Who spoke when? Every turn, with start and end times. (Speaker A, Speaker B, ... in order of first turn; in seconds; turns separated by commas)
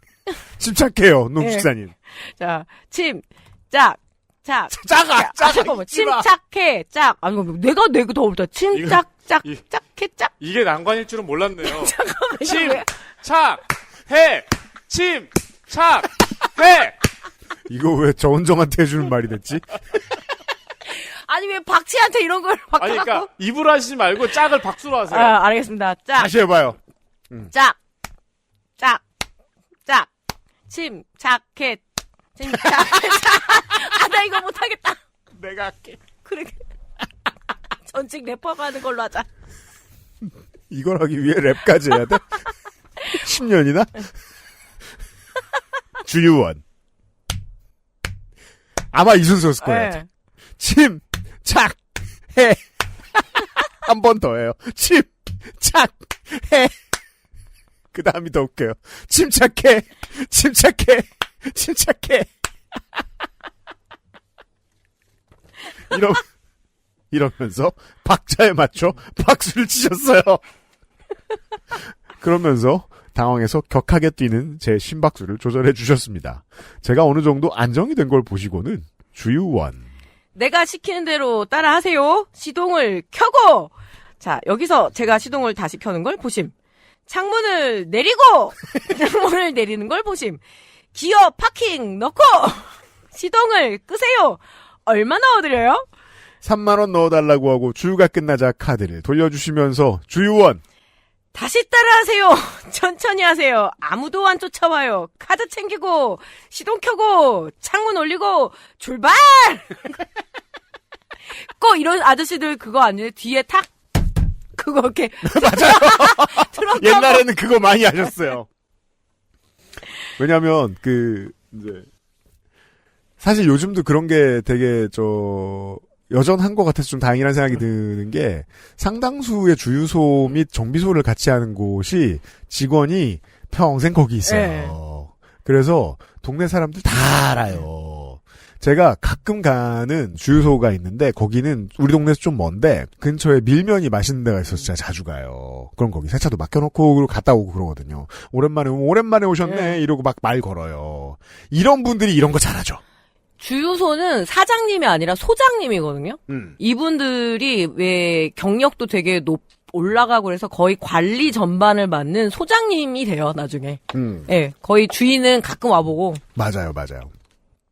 Speaker A: 0.6-1.9, Speaker B: 1.4-10.3, Speaker A: 4.7-6.3, Speaker C: 8.7-9.6, Speaker C: 10.4-17.0, Speaker B: 11.6-12.9, Speaker A: 17.7-19.6, Speaker B: 20.9-23.3, Speaker C: 22.8-25.4, Speaker B: 25.1-26.3, Speaker A: 26.1-26.8, Speaker B: 27.5-27.8, Speaker B: 28.8-29.0, Speaker B: 30.7-31.8, Speaker B: 32.3-35.0, Speaker A: 35.4-36.0, Speaker B: 36.2-36.6, Speaker B: 37.8-39.3, Speaker A: 40.7-42.4, Speaker A: 43.1-44.1, Speaker A: 46.0-46.6, Speaker A: 48.9-50.0, Speaker B: 49.6-50.1, Speaker A: 50.6-51.8, Speaker A: 52.3-52.6, Speaker A: 53.8-56.7, Speaker A: 57.9-62.3, Speaker A: 65.9-66.3, Speaker A: 67.1-70.4, Speaker A: 72.2-79.8, Speaker B: 80.3-86.5, Speaker B: 87.1-90.4, Speaker B: 90.9-95.8, Speaker A: 96.4-100.6, Speaker B: 101.3-109.9, Speaker B: 111.4-113.7, Speaker B: 114.5-117.3, Speaker A: 115.2-118.5, Speaker A: 120.2-121.8, Speaker A: 123.2-152.8, Speaker B: 134.2-134.8, Speaker B: 149.4-149.8, Speaker B: 153.4-166.2, Speaker A: 156.3-156.5, Speaker A: 163.9-164.3, Speaker A: 166.3-167.1